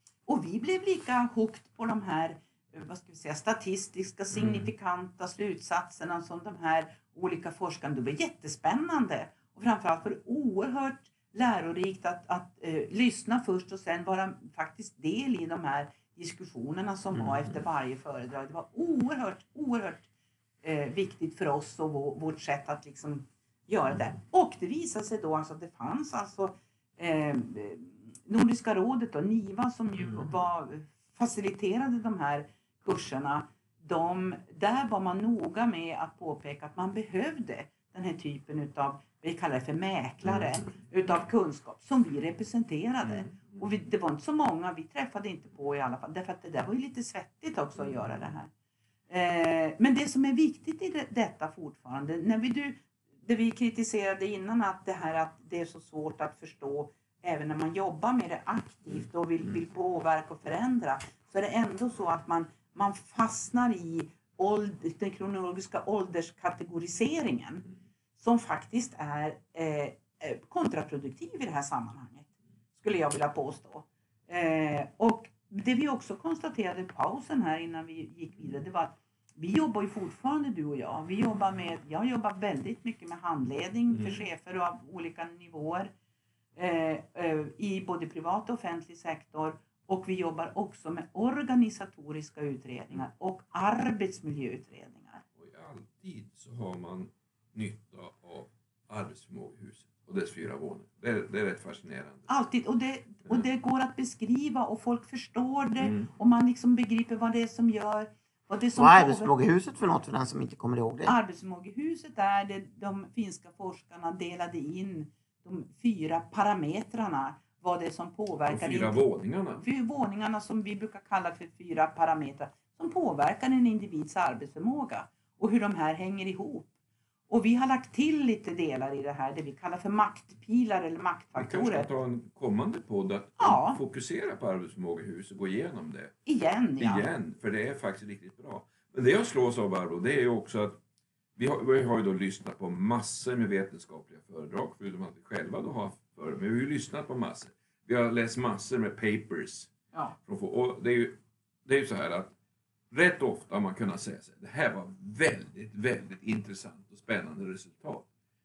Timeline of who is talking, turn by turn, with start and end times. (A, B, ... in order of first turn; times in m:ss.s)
0:00.3-0:20.1 A
0:04.3-0:04.7 B
0:17.1-0:17.6 B
0:20.6-0:48.5 A
0:30.0-0:30.3 B
0:40.2-0:40.7 B
0:43.0-0:43.7 B
0:47.8-0:48.4 B
0:49.1-1:25.9 A
1:26.6-1:35.2 A
1:35.4-1:42.3 B
1:42.3-1:49.3 A
1:45.8-1:46.1 B
1:48.8-1:51.2 C
1:51.1-2:06.7 A
1:58.5-1:59.6 B
2:07.3-2:11.9 A
2:11.4-2:16.1 B
2:13.4-2:13.8 A
2:16.2-2:17.1 A
2:16.8-2:20.8 B
2:21.4-2:29.7 B
2:30.2-2:32.3 B
2:32.9-2:38.1 B